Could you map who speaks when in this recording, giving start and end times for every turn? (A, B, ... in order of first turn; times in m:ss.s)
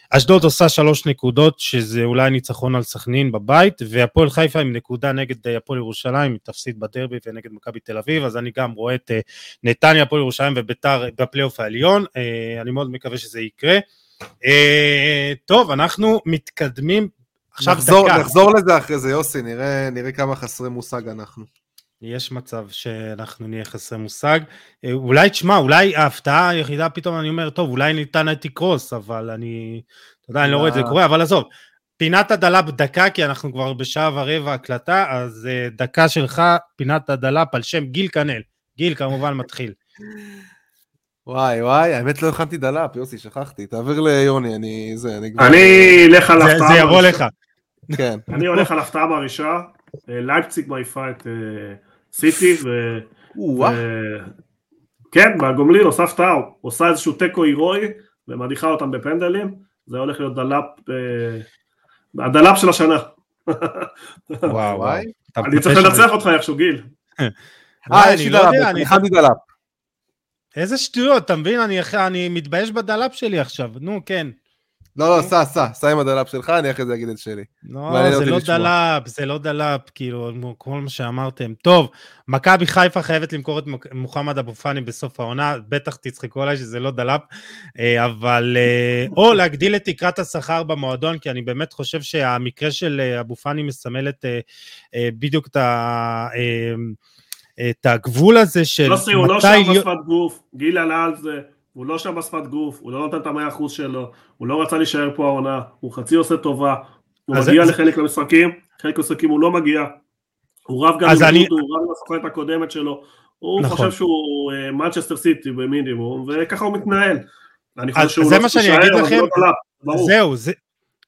0:00.1-0:13.8 A
0:14.4-0:18.3 A
0:17.6-0:21.5 B
0:22.0-0:31.5 A
0:30.4-0:31.0 B
0:32.0-0:39.8 A
0:41.3-0:46.1 B
0:45.4-0:47.2 C
0:46.4-0:47.3 A
0:47.9-0:48.6 A
0:47.9-0:48.2 B
0:48.3-0:53.1 C
0:53.4-0:53.8 B
0:53.6-0:54.3 C
0:55.1-1:01.5 C
1:02.2-1:04.5 C
1:04.4-1:06.0 B
1:04.5-1:06.1 A
1:05.4-1:06.9 C
1:07.9-1:09.4 B
1:07.9-1:09.0 A
1:10.6-1:14.3 A
1:15.0-1:18.7 B
1:17.6-1:27.2 A
1:27.8-1:34.4 A
1:34.9-1:37.0 A
1:37.6-1:39.8 A
1:38.8-1:49.9 C
1:47.3-1:47.7 A
1:50.7-1:57.2 C
1:51.0-1:51.5 A
1:53.6-1:53.9 A
1:57.8-2:00.1 C
1:58.0-2:00.6 A